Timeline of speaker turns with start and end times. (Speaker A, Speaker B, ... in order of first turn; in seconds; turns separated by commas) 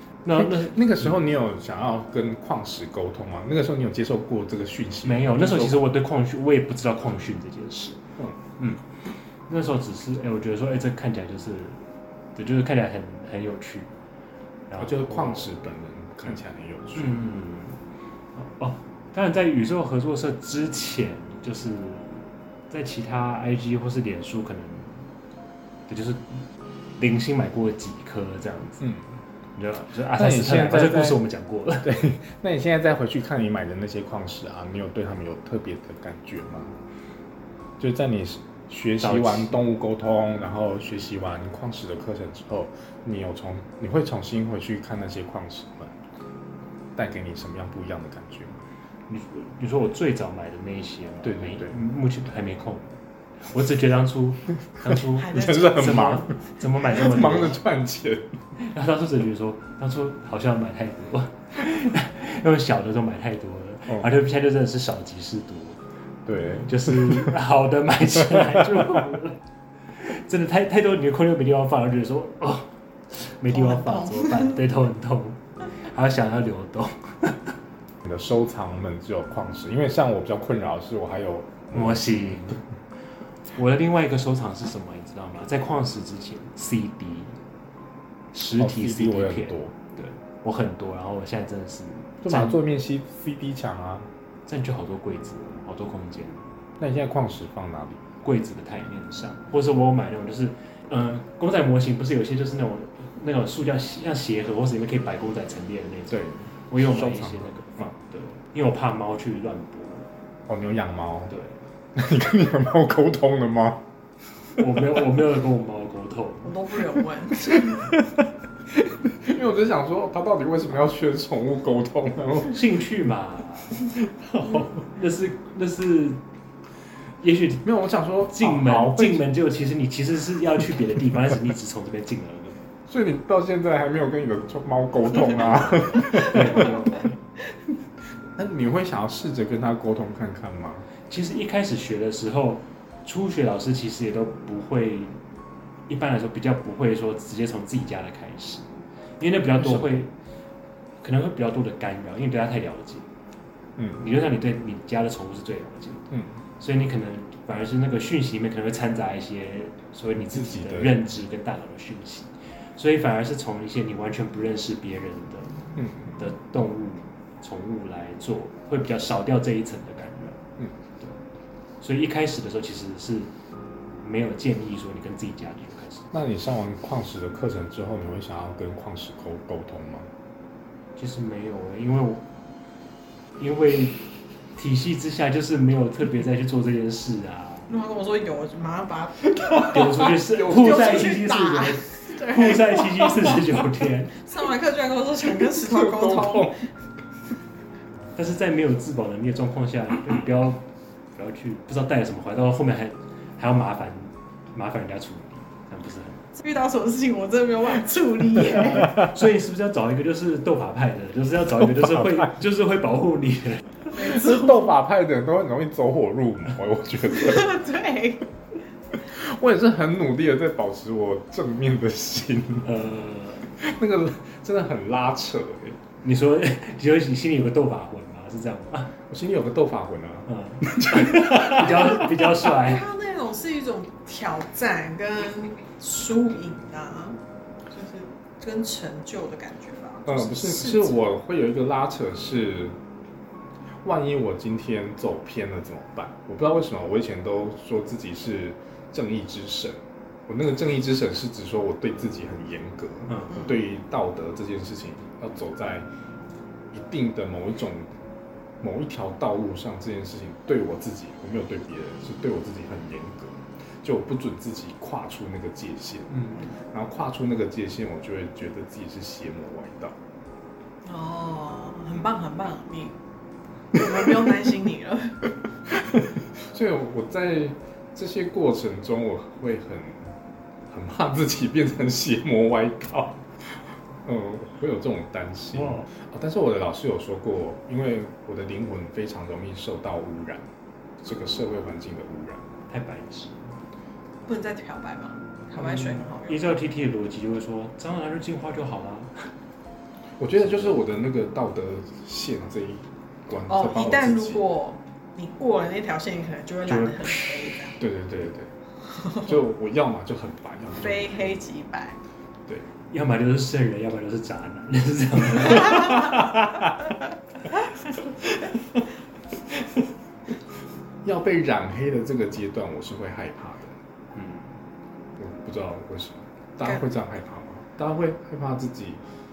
Speaker A: 0.2-1.2, Speaker B: 0.3-5.8, Speaker A: 5.0-8.0, Speaker A: 8.6-8.8, Speaker A: 9.5-11.8, Speaker A: 12.3-13.9, Speaker A: 14.7-15.6, Speaker B: 14.8-17.3, Speaker A: 16.9-17.8, Speaker A: 18.3-25.1, Speaker A: 25.9-26.4, Speaker A: 27.0-28.9, Speaker B: 28.8-29.1, Speaker A: 29.6-31.9, Speaker B: 30.1-31.2, Speaker B: 31.8-36.8, Speaker B: 37.8-46.0, Speaker A: 39.0-39.6, Speaker B: 46.9-48.6, Speaker A: 49.1-57.6, Speaker B: 51.2-51.8, Speaker B: 55.0-56.3, Speaker C: 55.1-56.2, Speaker B: 56.8-58.4, Speaker A: 58.6-65.8, Speaker B: 66.2-67.3, Speaker A: 66.4-77.5, Speaker B: 68.2-68.9, Speaker C: 73.5-74.6, Speaker B: 78.0-82.6, Speaker A: 81.7-82.6, Speaker A: 83.5-87.4, Speaker A: 88.3-92.6, Speaker B: 88.6-89.7, Speaker B: 92.2-94.1, Speaker A: 94.5-96.5, Speaker B: 96.8-98.0, Speaker A: 98.2-110.1, Speaker B: 106.1-107.8, Speaker B: 110.5-111.3, Speaker A: 111.3-111.6, Speaker B: 111.9-113.8, Speaker A: 114.6-116.5, Speaker C: 116.4-117.8, Speaker B: 118.7-122.6, Speaker A: 122.5-123.8, Speaker B: 124.0-124.8, Speaker A: 124.5-126.2, Speaker A: 127.2-127.7, Speaker B: 127.6-129.2, Speaker A: 128.3-132.6, Speaker B: 132.9-137.1, Speaker A: 135.2-137.2, Speaker B: 138.3-140.9, Speaker A: 141.1-145.1, Speaker A: 145.9-148.7, Speaker A: 149.2-150.1, Speaker B: 149.6-150.0, Speaker A: 151.0-153.1, Speaker B: 153.8-154.1, Speaker A: 154.0-165.6, Speaker B: 156.1-156.3, Speaker B: 160.1-161.0, Speaker B: 165.8-166.2, Speaker A: 166.2-170.4, Speaker A: 171.8-173.3, Speaker A: 174.0-176.1, Speaker B: 176.1-180.1, Speaker A: 180.9-182.2, Speaker A: 183.4-187.7, Speaker C: 187.7-192.8, Speaker B: 189.4-190.9, Speaker A: 189.7-194.2, Speaker C: 194.2-196.5, Speaker B: 195.4-196.6, Speaker A: 198.1-206.3, Speaker C: 206.4-209.1, Speaker A: 208.7-213.9, Speaker B: 211.6-212.3, Speaker C: 213.9-214.7, Speaker B: 213.9-217.6, Speaker C: 217.1-218.2, Speaker B: 218.9-222.7, Speaker A: 222.6-223.5, Speaker B: 223.5-225.8, Speaker A: 226.0-228.9, Speaker B: 229.1-232.1, Speaker A: 230.3-232.9, Speaker C: 232.5-237.2, Speaker C: 237.7-241.0, Speaker B: 240.1-242.8, Speaker B: 243.8-255.9, Speaker A: 253.1-253.5, Speaker B: 256.7-257.9, Speaker B: 258.6-270.0, Speaker A: 266.1-266.4, Speaker C: 270.8-272.9, Speaker C: 273.7-275.2, Speaker B: 275.7-280.1, Speaker B: 280.7-290.5, Speaker A: 285.5-285.9, Speaker B: 291.0-292.5, Speaker A: 292.7-293.6, Speaker C: 294.2-296.6, Speaker A: 295.6-299.3, Speaker B: 300.2-304.4, Speaker A: 300.4-300.8, Speaker C: 303.5-307.8, Speaker A: 306.7-307.6, Speaker B: 307.8-308.5, Speaker C: 309.0-309.3, Speaker B: 309.2-311.4, Speaker C: 310.8-312.0, Speaker A: 312.9-316.4, Speaker B: 316.0-316.3, Speaker B: 321.0-323.8, Speaker A: 324.1-324.6, Speaker B: 325.2-329.0